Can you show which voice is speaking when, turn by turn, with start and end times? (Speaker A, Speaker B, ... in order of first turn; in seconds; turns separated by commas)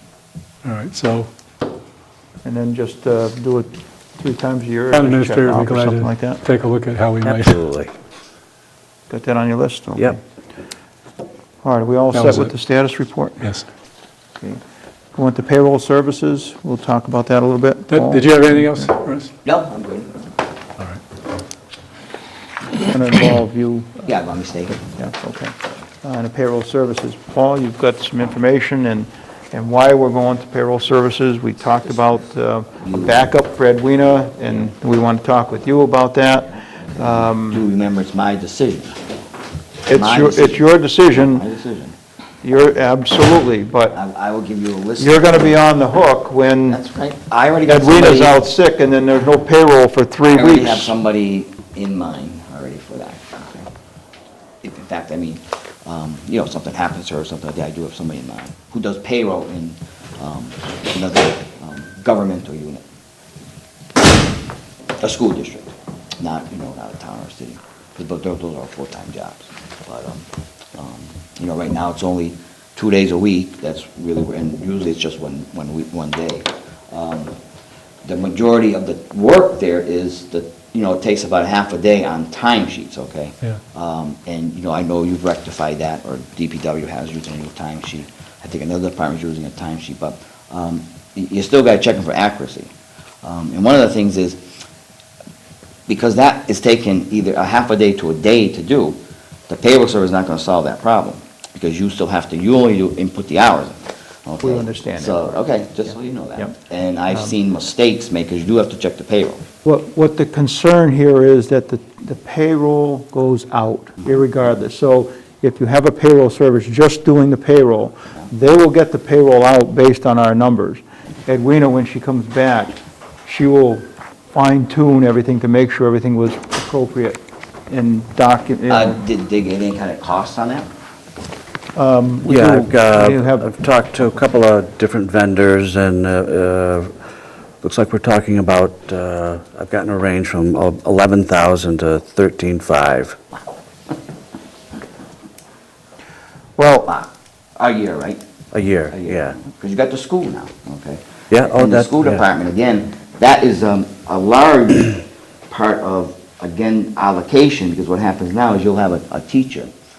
Speaker A: 0.6-1.3, Speaker B: 2.4-6.4, Speaker A: 4.9-7.6, Speaker C: 7.2-7.9, Speaker B: 9.1-10.2, Speaker B: 11.6-13.5, Speaker A: 12.1-12.5, Speaker B: 15.1-18.9, Speaker A: 17.9-19.3, Speaker D: 19.4-20.1, Speaker B: 22.8-24.1, Speaker D: 24.1-24.8, Speaker B: 24.8-37.6, Speaker D: 32.8-33.3, Speaker D: 37.4-39.0, Speaker B: 39.9-41.4, Speaker D: 39.9-41.9, Speaker B: 42.4-44.0, Speaker D: 43.9-45.6, Speaker B: 45.0-46.8, Speaker D: 46.7-48.4, Speaker B: 47.6-50.9, Speaker D: 50.3-53.7, Speaker D: 54.6-62.8, Speaker D: 65.0-77.3, Speaker D: 78.0-92.7, Speaker D: 93.2-94.4, Speaker D: 95.9-109.4, Speaker B: 104.4-105.3, Speaker B: 109.6-123.8, Speaker B: 124.3-129.0, Speaker D: 128.7-130.7, Speaker B: 131.7-133.4, Speaker C: 132.2-136.9, Speaker C: 137.6-143.2, Speaker B: 146.6-146.9, Speaker D: 146.8-148.2, Speaker C: 148.5-149.3, Speaker D: 148.9-159.7, Speaker C: 151.3-152.2